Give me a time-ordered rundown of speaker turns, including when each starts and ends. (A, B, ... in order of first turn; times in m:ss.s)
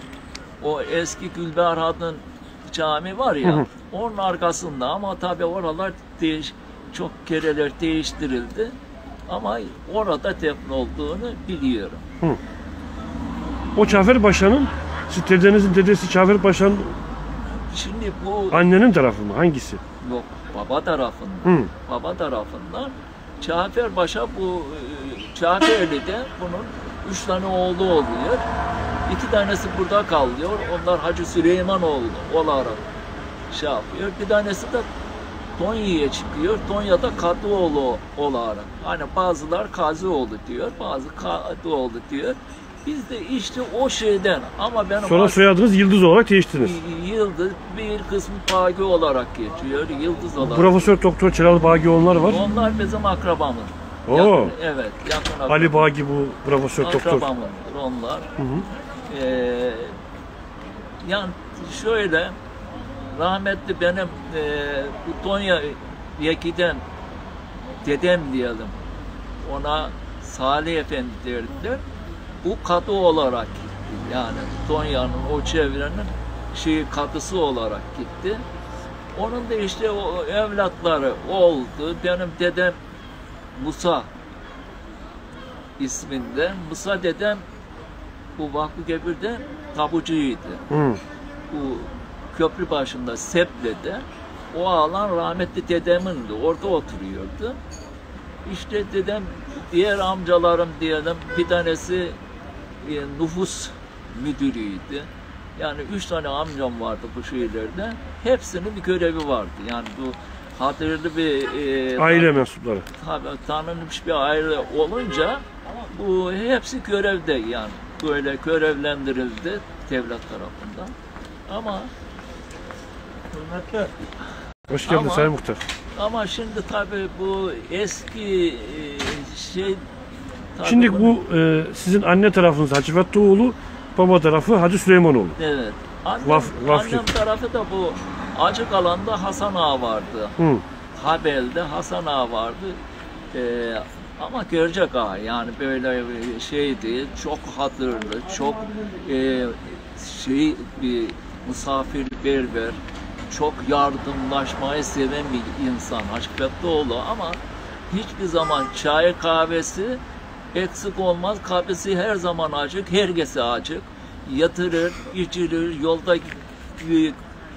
0:00.6-0:08.8 A
0:09.3-0:12.0 A
0:13.8-0:17.0 B
0:17.6-0:18.6 A
0:18.5-0:19.8 B
0:20.0-0:28.5 A
0:21.4-0:21.7 B
0:29.1-0:32.8 A
0:33.5-0:34.9 A
0:35.6-0:45.4 A
0:45.0-0:46.8 B
0:46.6-0:50.9 A
0:50.4-0:52.4 B
0:52.3-0:55.9 A
0:54.1-0:54.5 B
0:55.5-0:57.3 B
0:56.8-0:58.3 A
0:58.4-0:58.6 B
0:59.1-1:00.0 A
1:01.0-1:02.4 A
1:03.1-1:06.8 A
1:07.8-1:08.8 A
1:09.4-1:11.8 A
1:12.4-1:18.4 A
1:19.1-1:22.8 A
1:23.5-1:24.1 A
1:25.8-1:27.4 A
1:28.4-1:30.6 A
1:30.7-1:31.0 B
1:31.5-1:37.6 A
1:38.4-1:42.2 A
1:42.8-1:52.4 A
1:52.0-1:52.8 B
1:53.0-2:00.9 A
2:01.5-2:01.9 A
2:03.3-2:03.9 A
2:04.7-2:05.6 B
2:04.8-2:05.3 A
2:05.9-2:09.8 A
2:10.6-2:11.2 A
2:10.6-2:15.4 B
2:15.4-2:20.3 A
2:16.2-2:17.1 B
2:20.9-2:22.8 A
2:23.3-2:40.0 A
2:40.5-2:47.2 A